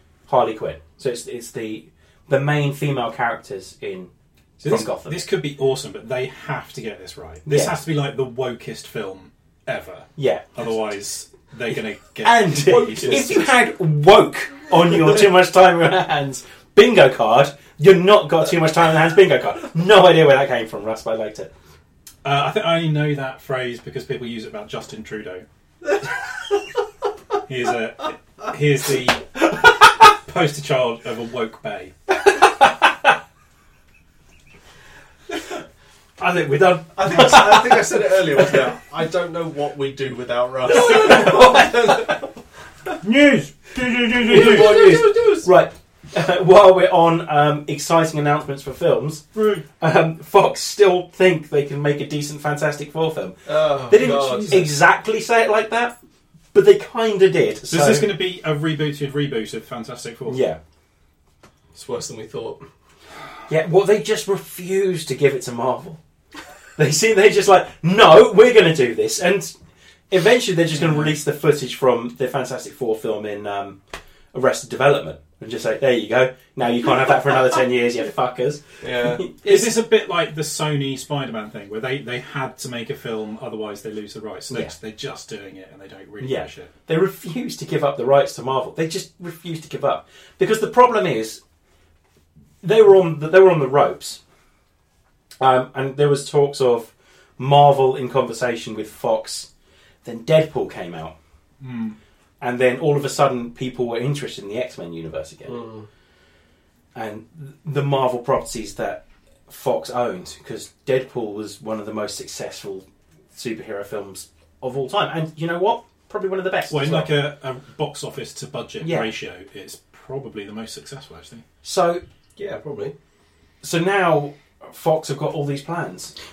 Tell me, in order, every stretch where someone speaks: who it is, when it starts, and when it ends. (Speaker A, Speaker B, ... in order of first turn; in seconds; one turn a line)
Speaker A: 0.3-5.2
Speaker B: 4.6-13.5
Speaker A: 7.5-7.8
Speaker A: 10.2-10.6
Speaker A: 12.2-21.5
Speaker C: 12.7-13.5
Speaker B: 22.2-25.5
Speaker B: 27.5-31.9
Speaker A: 32.4-33.1
Speaker A: 36.2-38.6
Speaker C: 37.0-42.3
Speaker A: 40.7-42.2
Speaker B: 43.0-44.9
Speaker A: 43.8-49.2
Speaker C: 44.2-45.5
Speaker B: 49.4-49.6
Speaker A: 49.8-56.0
Speaker C: 53.5-54.7
Speaker B: 53.9-54.7
Speaker A: 56.5-58.1
Speaker B: 57.7-60.4
Speaker A: 60.3-60.6
Speaker C: 61.8-62.6
Speaker A: 63.5-66.0
Speaker A: 66.8-69.5
Speaker A: 70.1-73.8
Speaker A: 74.3-79.8
Speaker C: 78.8-79.3
Speaker B: 79.4-86.7
Speaker A: 86.2-91.4
Speaker A: 92.6-94.2
Speaker A: 95.4-99.5
Speaker A: 100.0-101.2
Speaker B: 101.6-102.0
Speaker A: 102.4-105.7
Speaker C: 105.5-105.9
Speaker A: 107.0-117.1
Speaker B: 116.7-121.4
Speaker A: 118.8-119.1
Speaker A: 121.6-122.0
Speaker C: 122.4-123.0
Speaker A: 123.6-126.1